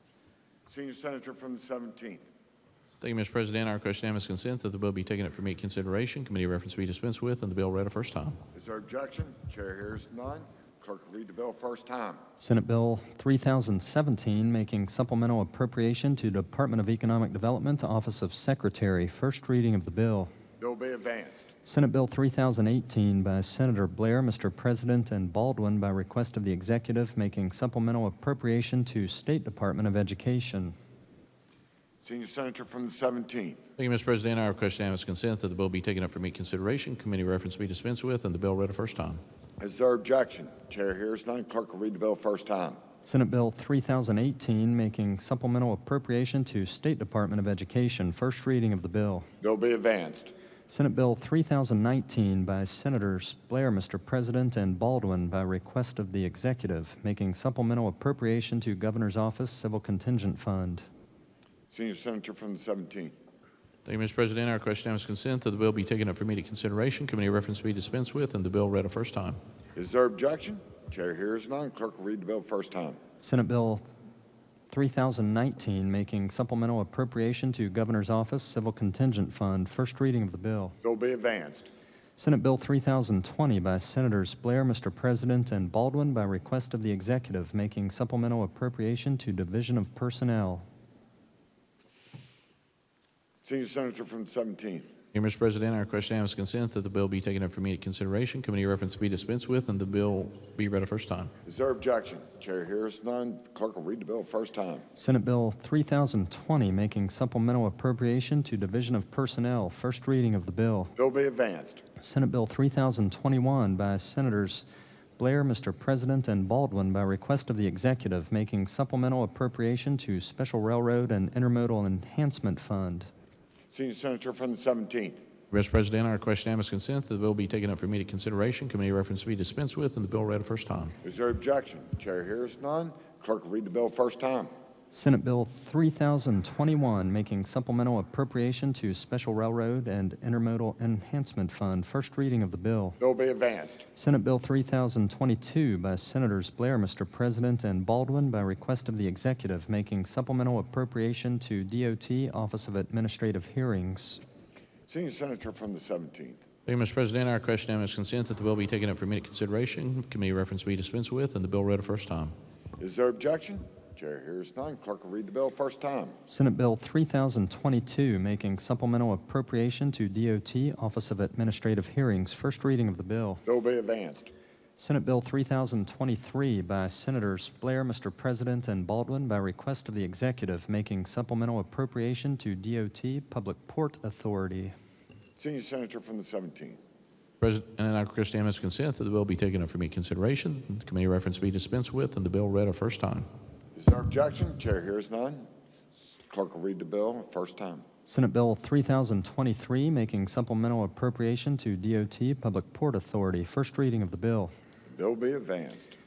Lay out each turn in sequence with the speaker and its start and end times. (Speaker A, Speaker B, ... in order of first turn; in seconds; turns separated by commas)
Speaker A: 0.7-2.2, Speaker B: 3.0-8.4, Speaker A: 8.5-12.2, Speaker C: 12.4-20.3, Speaker A: 20.6-21.5, Speaker C: 21.6-30.7, Speaker A: 32.0-33.6, Speaker B: 33.8-39.2, Speaker A: 39.6-42.8, Speaker C: 43.0-49.3, Speaker A: 49.4-50.3, Speaker C: 50.7-60.9, Speaker A: 61.7-63.1, Speaker B: 63.9-69.4, Speaker A: 69.7-73.0, Speaker C: 73.2-73.9, Speaker C: 74.7-80.8, Speaker A: 80.8-81.7, Speaker C: 82.2-90.6, Speaker A: 93.4-94.9, Speaker B: 95.1-101.3, Speaker A: 101.4-104.8, Speaker C: 105.0-110.9, Speaker A: 111.0-111.8, Speaker C: 112.0-114.6, Speaker C: 115.2-123.1, Speaker A: 123.7-125.2, Speaker B: 125.5-130.9, Speaker A: 131.0-134.5, Speaker C: 134.9-143.0, Speaker A: 143.0-143.9, Speaker C: 143.9-154.2, Speaker A: 154.9-156.4, Speaker B: 156.7-162.3, Speaker A: 162.8-166.1, Speaker C: 166.3-173.4, Speaker A: 173.4-174.3, Speaker C: 174.8-184.7, Speaker A: 185.4-186.8, Speaker B: 187.4-193.3, Speaker A: 193.7-195.5, Speaker A: 196.3-197.8, Speaker C: 198.1-204.5, Speaker A: 204.9-206.0